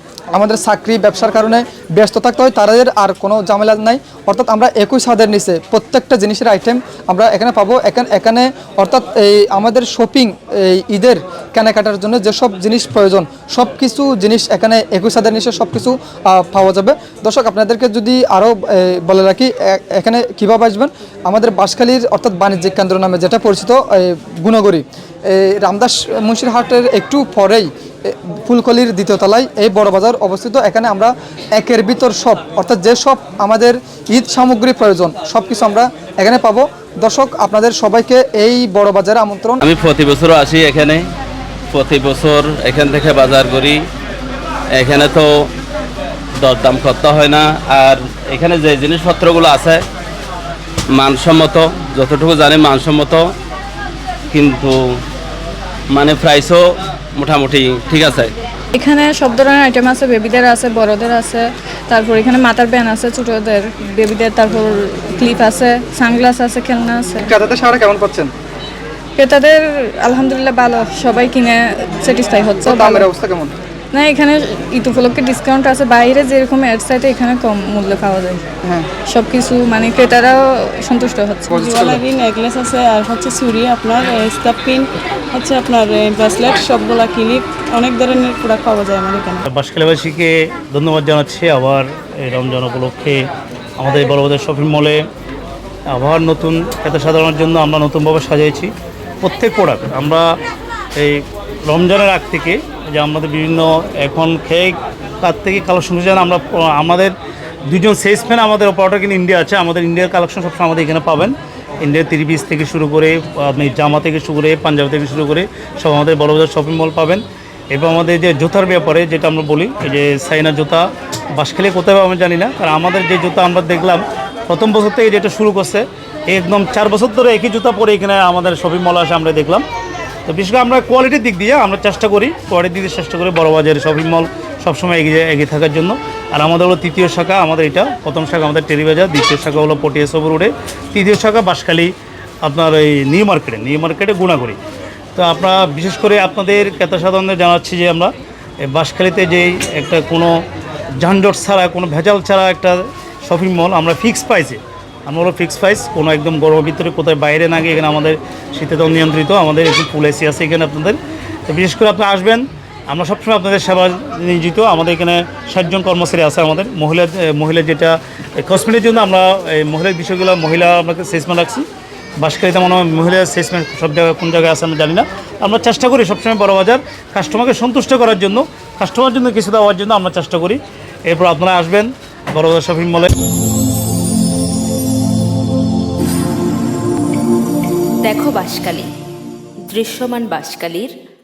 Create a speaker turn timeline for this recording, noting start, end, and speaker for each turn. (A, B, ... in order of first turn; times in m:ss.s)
0:00.3-0:39.6 A
0:39.6-0:41.0 B
0:41.7-0:43.8 B
0:44.7-0:45.3 B
0:46.4-0:49.8 B
0:50.9-0:53.3 B
0:54.3-0:54.8 B
0:55.9-0:56.6 B
0:57.1-0:58.3 B
0:58.7-1:07.3 C
1:07.2-1:08.3 A
1:09.2-1:13.1 C
1:12.6-1:13.5 A
1:13.9-1:18.4 C
1:19.1-1:21.6 C
1:21.5-1:22.0 A
1:21.5-1:29.4 D
1:29.5-1:33.2 E
1:33.8-1:35.0 E
1:35.9-1:38.7 E
1:39.2-1:40.2 E
1:41.0-1:47.1 E
1:47.7-2:00.8 E
2:01.4-2:09.6 E
2:10.2-2:21.9 E
2:22.4-2:24.6 E
2:25.2-2:28.1 E
2:28.6-2:30.3 E
2:31.0-2:41.0 E
2:41.5-2:51.6 E
2:52.2-3:03.1 E
3:08.0-3:08.9 F
3:09.7-3:10.9 F